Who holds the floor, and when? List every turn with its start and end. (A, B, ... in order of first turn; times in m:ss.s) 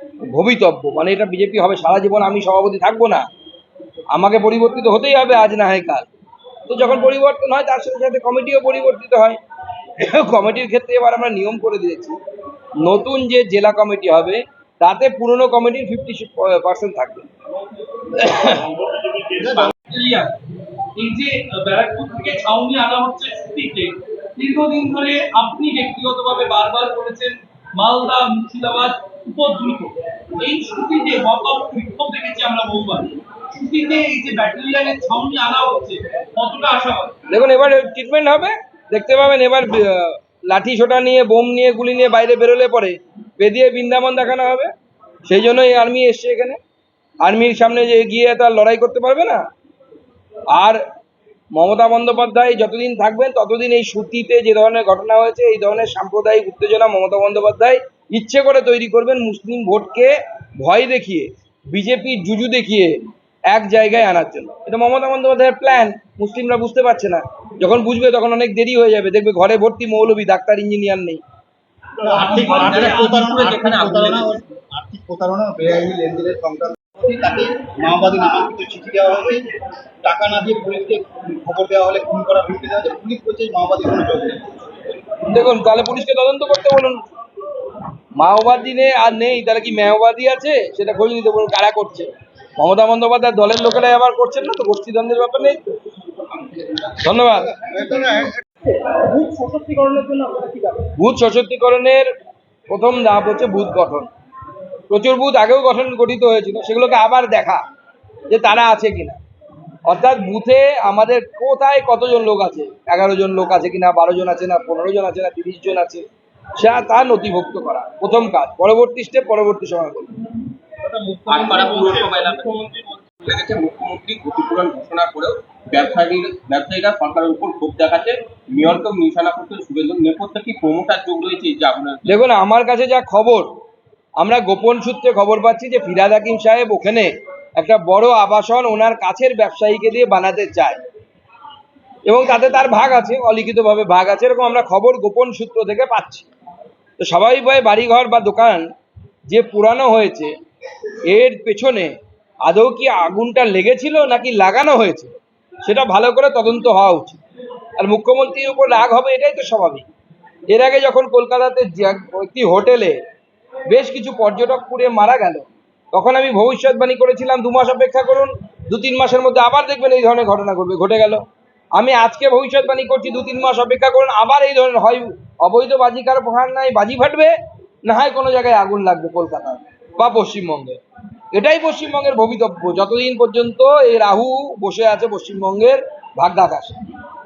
0:00.3-0:03.2 A
0:04.1-0:06.1 A
0:06.7-0:09.4 A
0:10.0-0:12.2 A
0:12.8-0:17.3 A
0:18.2-0:18.7 A
0:19.3-0:19.7 B
0:19.6-0:20.3 C
0:21.0-0:37.1 C
0:37.3-0:44.7 A
0:45.3-0:46.6 A
0:47.2-0:49.4 A
0:50.5-0:50.8 A
0:51.6-1:03.0 A
1:03.5-1:11.2 A
1:12.0-1:19.4 B
1:12.1-1:14.3 D
1:12.2-1:12.7 C
1:20.0-1:24.6 B
1:25.3-1:27.0 A
1:28.2-1:35.6 A
1:37.0-1:37.5 A
1:37.6-1:40.6 B
1:41.0-1:42.1 A
1:42.7-1:44.1 A
1:44.9-1:47.6 A
1:48.3-1:49.2 A
1:49.9-1:56.0 A
1:56.6-2:00.1 A
2:01.1-2:02.5 B
2:01.3-2:12.0 D
2:12.1-2:13.5 A
2:14.2-2:20.8 A
2:22.1-2:26.3 A
2:27.0-2:28.7 A
2:29.3-2:30.3 A
2:31.1-2:31.9 A
2:32.4-2:37.2 A
2:37.8-2:39.9 A
2:40.5-2:43.0 A
2:43.7-2:51.2 A
2:51.8-2:57.3 A
2:57.9-3:00.8 A
3:01.3-3:06.8 A